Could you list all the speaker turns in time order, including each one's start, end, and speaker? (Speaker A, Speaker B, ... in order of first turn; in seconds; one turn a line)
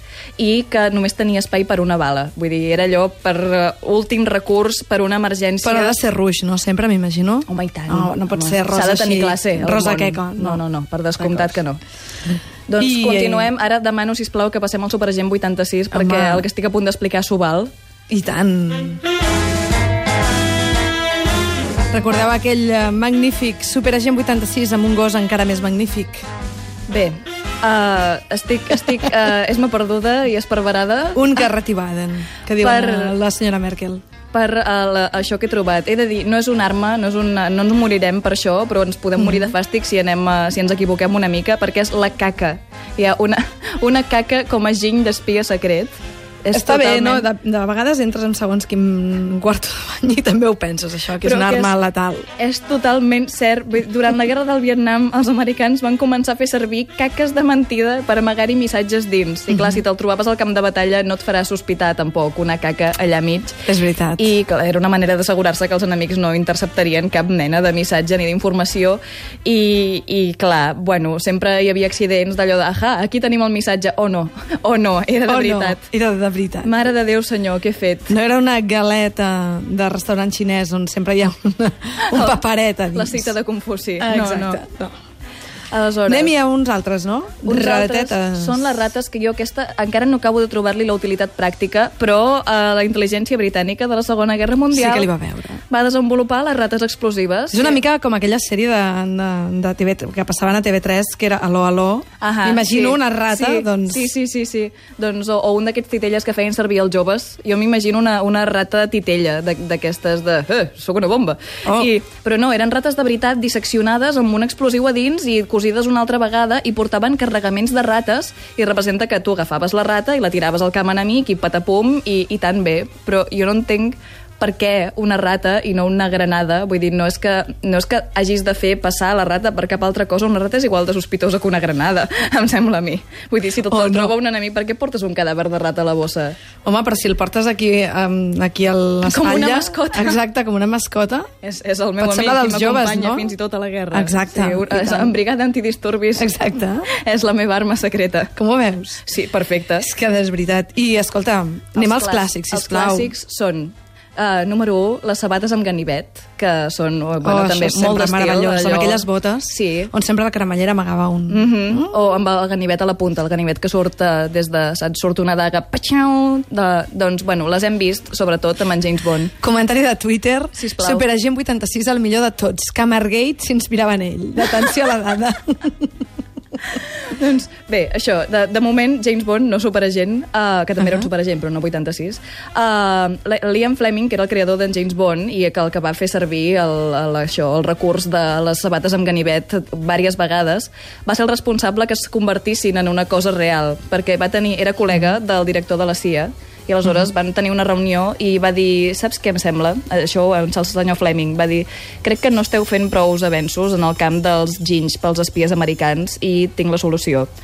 Speaker A: 0.4-6.0
Speaker B: 5.6-10.6
Speaker A: 7.5-11.8
Speaker B: 11.2-11.6
Speaker A: 12.7-17.7
Speaker B: 12.8-13.5
Speaker B: 15.9-16.4
Speaker B: 18.1-19.0
Speaker B: 21.9-26.2
Speaker A: 26.9-31.4
Speaker B: 31.1-34.0
Speaker A: 32.6-33.1
Speaker A: 34.3-47.3
Speaker B: 46.5-52.3
Speaker A: 51.2-51.7
Speaker A: 52.4-63.5
Speaker B: 63.6-64.3
Speaker A: 64.2-75.8
Speaker B: 75.3-76.7
Speaker A: 76.6-78.1
Speaker B: 78.1-83.3
Speaker A: 82.0-82.3
Speaker A: 82.9-84.6
Speaker B: 84.0-84.9
Speaker A: 85.7-86.3
Speaker B: 86.1-88.6
Speaker A: 87.4-95.1
Speaker B: 94.7-95.6
Speaker A: 95.7-97.8
Speaker B: 97.5-104.1
Speaker A: 102.2-136.4
Speaker B: 111.7-111.9
Speaker B: 133.7-134.1
Speaker B: 136.6-141.3
Speaker A: 139.0-140.2
Speaker A: 141.4-146.3
Speaker B: 142.0-143.3
Speaker B: 143.9-145.2
Speaker B: 146.2-146.9
Speaker A: 146.9-148.3
Speaker B: 148.3-149.0
Speaker A: 149.0-149.9
Speaker B: 149.8-153.1
Speaker A: 151.7-159.9
Speaker B: 157.2-161.9
Speaker A: 161.3-169.3
Speaker B: 169.4-175.9
Speaker A: 170.5-171.1
Speaker A: 176.7-207.3